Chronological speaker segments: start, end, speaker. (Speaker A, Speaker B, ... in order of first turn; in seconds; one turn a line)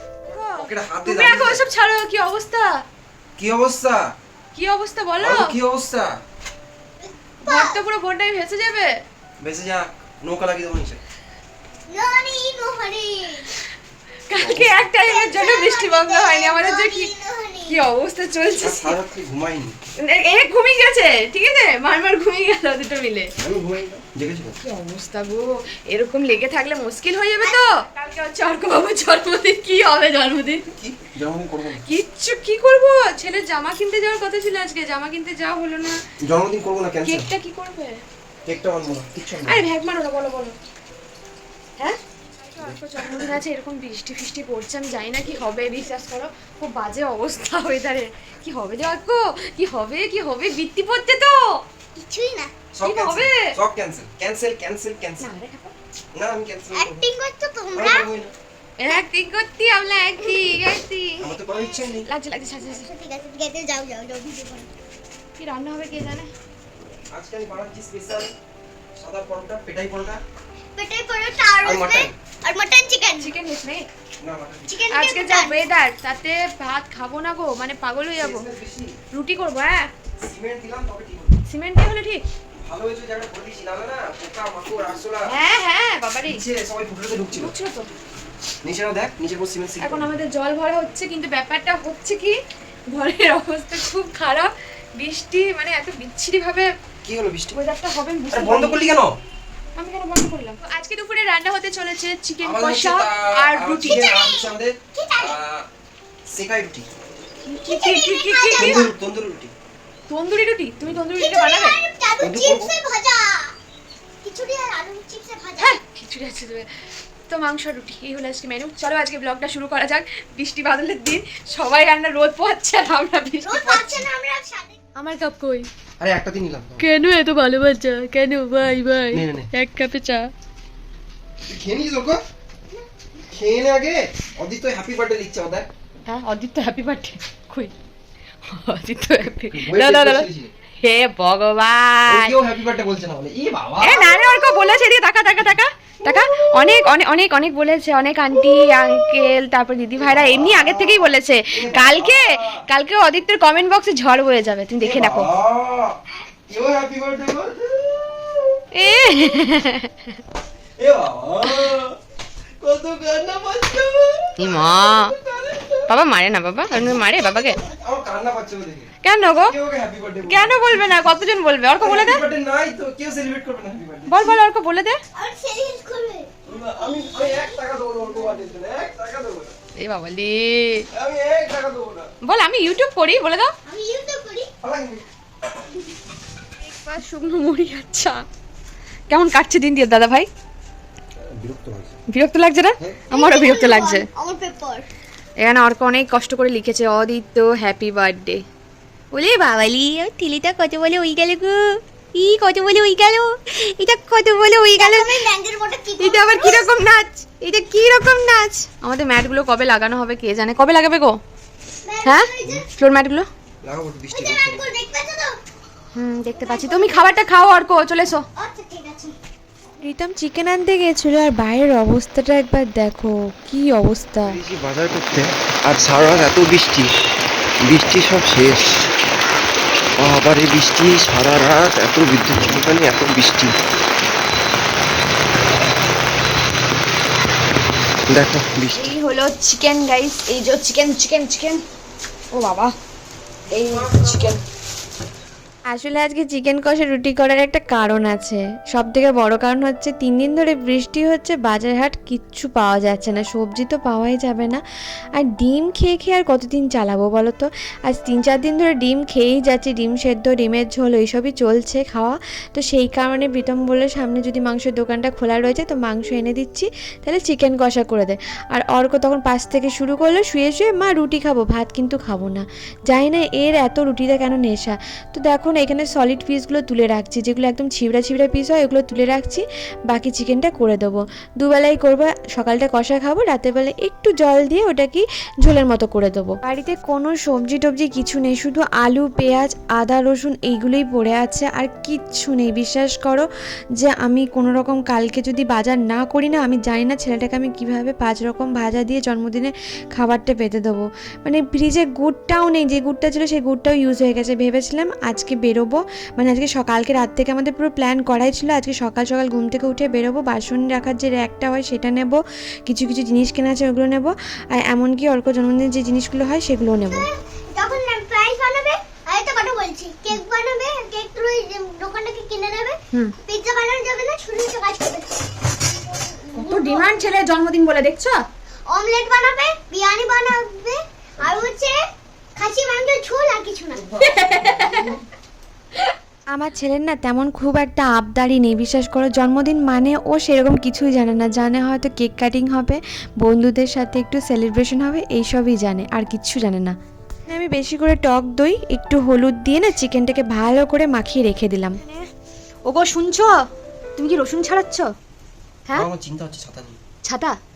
Speaker A: 0.3-1.6
Speaker B: 0.3-2.8
Speaker A: 3.4-4.0
Speaker B: 4.5-5.5
Speaker A: 5.2-6.1
Speaker C: 7.0-7.8
Speaker B: 7.4-9.0
Speaker A: 9.4-11.0
Speaker C: 11.9-13.5
Speaker B: 14.3-17.1
Speaker A: 14.4-14.7
Speaker C: 14.9-17.8
Speaker B: 17.7-19.0
Speaker A: 18.6-19.8
Speaker B: 20.0-23.3
Speaker A: 23.4-24.6
Speaker B: 24.6-30.7
Speaker A: 30.8-31.8
Speaker B: 31.9-36.0
Speaker A: 36.2-37.3
Speaker B: 37.0-38.0
Speaker A: 38.5-39.7
Speaker B: 39.4-40.6
Speaker B: 41.8-51.6
Speaker A: 42.6-43.4
Speaker C: 52.0-52.5
Speaker A: 52.7-55.3
Speaker B: 52.8-53.5
Speaker B: 55.2-55.8
Speaker A: 56.1-57.1
Speaker C: 56.7-58.1
Speaker A: 57.8-58.3
Speaker B: 58.8-61.4
Speaker C: 60.2-60.6
Speaker A: 61.2-62.1
Speaker C: 61.5-62.0
Speaker B: 62.1-62.9
Speaker C: 62.6-64.7
Speaker B: 65.4-66.3
Speaker A: 67.1-68.3
Speaker A: 69.0-70.2
Speaker C: 70.8-73.3
Speaker A: 71.6-72.2
Speaker B: 73.1-73.9
Speaker A: 74.2-74.8
Speaker C: 74.7-75.6
Speaker B: 74.9-78.5
Speaker A: 78.2-79.0
Speaker B: 79.1-79.9
Speaker A: 80.2-81.4
Speaker B: 81.5-82.2
Speaker A: 82.6-85.3
Speaker B: 85.3-86.4
Speaker A: 86.2-87.5
Speaker B: 87.3-87.9
Speaker A: 88.6-90.2
Speaker B: 89.8-92.4
Speaker B: 92.9-96.7
Speaker A: 97.0-97.6
Speaker B: 97.5-98.8
Speaker A: 98.3-99.2
Speaker B: 99.8-104.1
Speaker A: 102.4-105.7
Speaker C: 103.8-105.4
Speaker A: 106.3-106.9
Speaker B: 107.4-108.9
Speaker C: 107.7-108.9
Speaker A: 108.5-109.5
Speaker B: 110.1-111.8
Speaker C: 111.2-113.5
Speaker A: 112.2-112.7
Speaker C: 114.2-115.8
Speaker B: 115.6-116.7
Speaker B: 117.3-124.1
Speaker C: 123.4-124.8
Speaker B: 125.0-125.7
Speaker A: 126.0-126.9
Speaker B: 126.8-130.3
Speaker A: 129.1-129.5
Speaker A: 131.5-132.2
Speaker A: 133.3-135.7
Speaker B: 136.1-137.7
Speaker B: 138.4-140.3
Speaker A: 139.5-140.5
Speaker B: 140.8-142.3
Speaker A: 142.1-144.7
Speaker B: 143.8-155.3
Speaker A: 146.0-146.8
Speaker A: 148.4-149.2
Speaker A: 150.0-152.7
Speaker A: 154.8-158.6
Speaker B: 158.8-160.2
Speaker A: 160.8-162.0
Speaker A: 162.6-165.9
Speaker B: 164.4-165.2
Speaker B: 165.9-167.6
Speaker A: 166.7-171.0
Speaker C: 167.0-167.8
Speaker B: 169.0-169.6
Speaker B: 170.3-172.3
Speaker A: 171.8-174.4
Speaker B: 174.1-175.0
Speaker C: 175.2-176.3
Speaker A: 176.4-179.5
Speaker C: 176.9-177.6
Speaker B: 179.8-180.9
Speaker A: 180.9-182.1
Speaker B: 182.2-183.6
Speaker C: 183.7-184.5
Speaker A: 184.6-185.1
Speaker B: 186.6-188.2
Speaker B: 189.1-190.3
Speaker A: 191.3-192.0
Speaker B: 192.1-194.1
Speaker C: 193.1-194.9
Speaker B: 195.4-198.4
Speaker B: 199.1-205.2
Speaker C: 204.8-206.7
Speaker B: 206.0-211.2
Speaker C: 211.8-212.7
Speaker B: 212.0-213.3
Speaker A: 213.6-214.7
Speaker C: 214.1-215.4
Speaker B: 215.9-218.3
Speaker C: 216.4-217.2
Speaker C: 218.4-219.2
Speaker D: 219.8-224.4
Speaker E: 224.2-226.9
Speaker E: 227.7-228.7
Speaker E: 230.0-233.6
Speaker E: 238.1-238.9
Speaker B: 238.7-241.6
Speaker B: 242.3-242.8
Speaker B: 243.5-244.4
Speaker A: 243.5-244.4
Speaker D: 245.7-254.6
Speaker D: 255.2-317.1
Speaker C: 316.9-327.0
Speaker B: 326.4-328.2
Speaker C: 328.7-331.8
Speaker C: 332.4-334.9
Speaker B: 333.8-335.0
Speaker D: 336.3-351.8
Speaker B: 351.8-352.1
Speaker B: 352.6-354.9
Speaker A: 355.7-356.8
Speaker B: 357.0-357.4